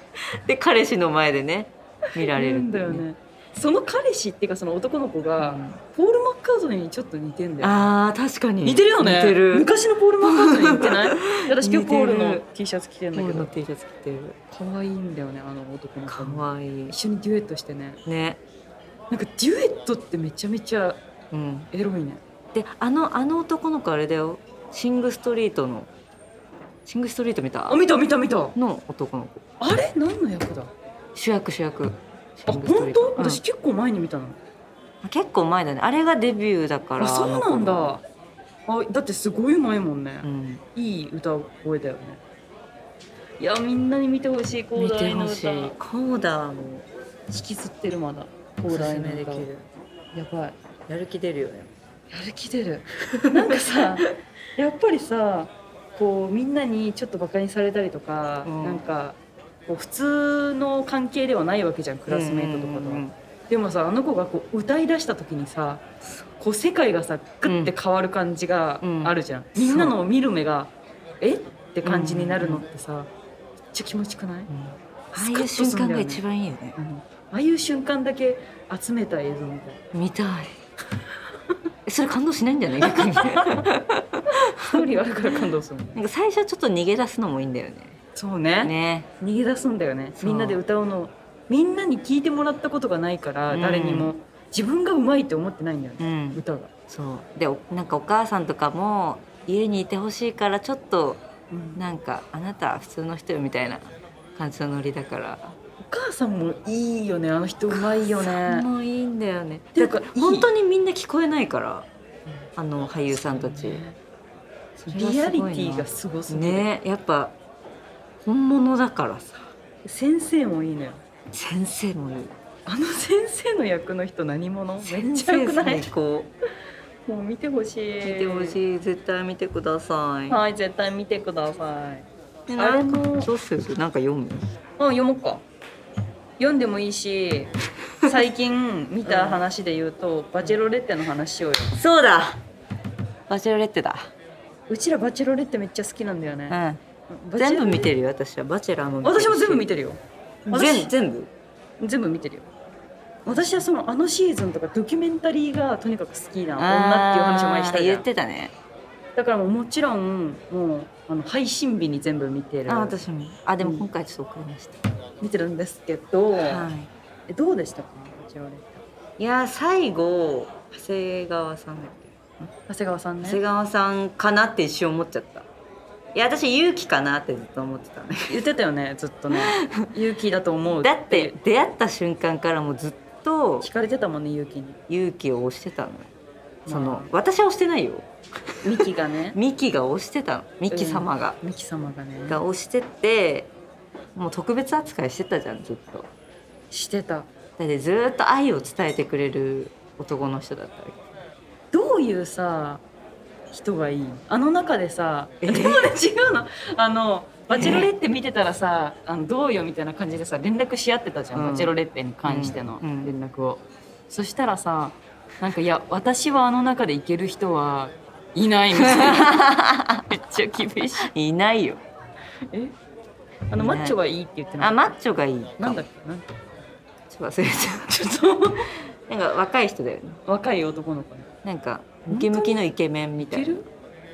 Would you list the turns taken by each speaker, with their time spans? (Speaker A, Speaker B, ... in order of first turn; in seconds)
Speaker A: 0.5-3.0, 5.4-5.8, 7.6-9.7, 10.2-12.4, 13.1-14.3, 16.1-16.9, 18.0-18.4, 21.3-21.7, 22.5-25.9, 26.9-27.8, 28.5-29.4, 31.1-33.4, 35.0-38.0, 40.2-40.6, 44.7-46.9, 48.7-49.7, 50.9-51.7, 53.1-53.8, 58.4-58.8, 62.1-63.1, 67.4-67.7, 68.8-69.9, 71.8-72.6, 74.5-76.8, 79.9-80.5, 81.8-84.9, 85.9-88.0, 88.6-89.1, 90.2-90.6, 93.5-94.1, 96.0-101.2, 101.7-105.5, 107.7-111.9, 112.5-113.8, 114.8-117.3, 118.2-119.5, 121.3-122.3, 124.8-126.3, 128.0-130.4, 132.5-134.5, 139.0-139.4, 141.7-142.4, 143.3-144.1, 146.5-146.8, 147.4-149.7, 150.5-151.3, 153.2-153.6, 156.6-158.5, 162.7-164.8, 166.3-166.9, 169.2-172.2, 173.2-175.5, 176.1-178.4, 179.6-179.9, 180.8-183.7, 184.9-186.1, 186.7-188.1, 189.3-191.4, 192.3-193.5, 194.1-196.1, 197.6-201.0, 205.4-205.9, 207.5-207.9, 211.3-211.7, 212.2-213.1, 218.9-220.2, 221.0-221.8, 223.6-224.0, 224.6-225.8, 227.1-228.1, 228.9-230.2, 231.4-233.6
Speaker B: 2.2-7.9, 8.6-13.5, 14.5-18.0, 19.1-21.0, 21.7-22.2, 27.7-28.6, 29.6-30.7, 32.5-34.4, 37.0-38.0, 38.7-42.2, 43.4-45.7, 47.3-49.5, 50.1-50.5, 52.1-65.8, 66.4-73.1, 73.7-74.5, 75.1-76.2, 76.8-79.8, 82.8-83.4, 84.7-86.0, 88.2-96.7, 101.5-101.8, 105.8-108.7, 109.7-110.5, 113.1-114.0, 114.9-116.7, 119.8-121.0, 122.7-125.8, 127.0-128.6, 130.3-133.3, 134.8-135.4, 136.4-141.8, 144.7-146.6, 147.1-147.9, 149.0-150.9, 151.8-152.5, 153.2-158.1, 159.2-163.0, 163.6-163.9, 165.2-166.7, 167.3-168.8, 172.6-173.4, 178.3-181.3, 183.6-184.8, 186.7-187.1, 188.6-189.4, 190.7-192.4, 196.7-197.3, 201.7-202.8, 203.5-219.5, 220.1-221.1, 223.5-224.9, 225.6-226.4, 227.8-228.7, 230.2-231.3, 232.1-232.6, 233.2-233.7